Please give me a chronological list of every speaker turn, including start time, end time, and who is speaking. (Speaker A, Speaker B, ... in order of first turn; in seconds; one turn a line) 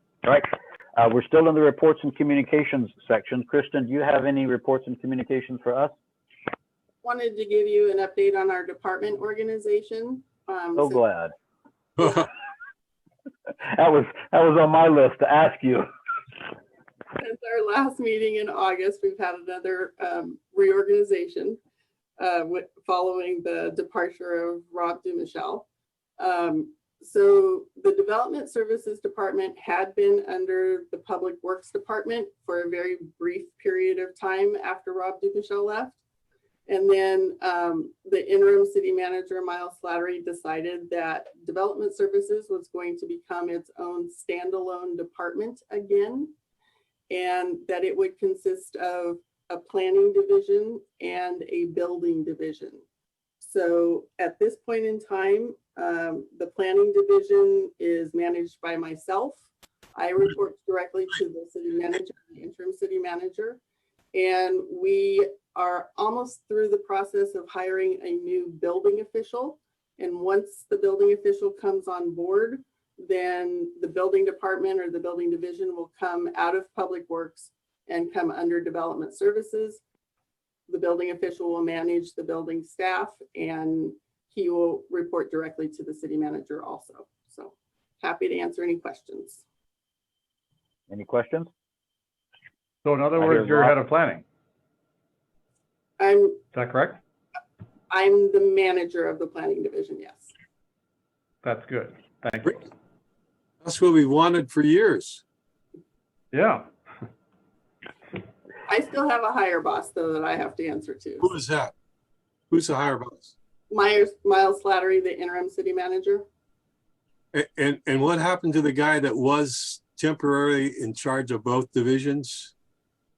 Speaker A: 0.2-5.9
Speaker B: 7.0-11.0
Speaker A: 10.8-11.3
Speaker C: 12.0-12.3
Speaker A: 13.7-15.9
Speaker B: 17.2-21.6
Speaker B: 22.2-25.7
Speaker B: 26.2-36.0
Speaker B: 36.7-46.3
Speaker B: 47.1-52.8
Speaker B: 53.4-59.4
Speaker B: 60.0-63.6
Speaker B: 64.1-79.8
Speaker B: 80.7-89.4
Speaker A: 90.9-91.5
Speaker D: 92.8-94.2
Speaker A: 93.2-93.8
Speaker B: 96.0-96.4
Speaker D: 96.5-97.0
Speaker B: 97.9-100.3
Speaker D: 101.4-102.7
Speaker C: 103.6-105.2
Speaker D: 106.3-106.7
Speaker B: 108.7-111.3
Speaker C: 111.2-111.7
Speaker C: 112.5-113.3
Speaker B: 113.7-116.3
Speaker C: 117.3-122.5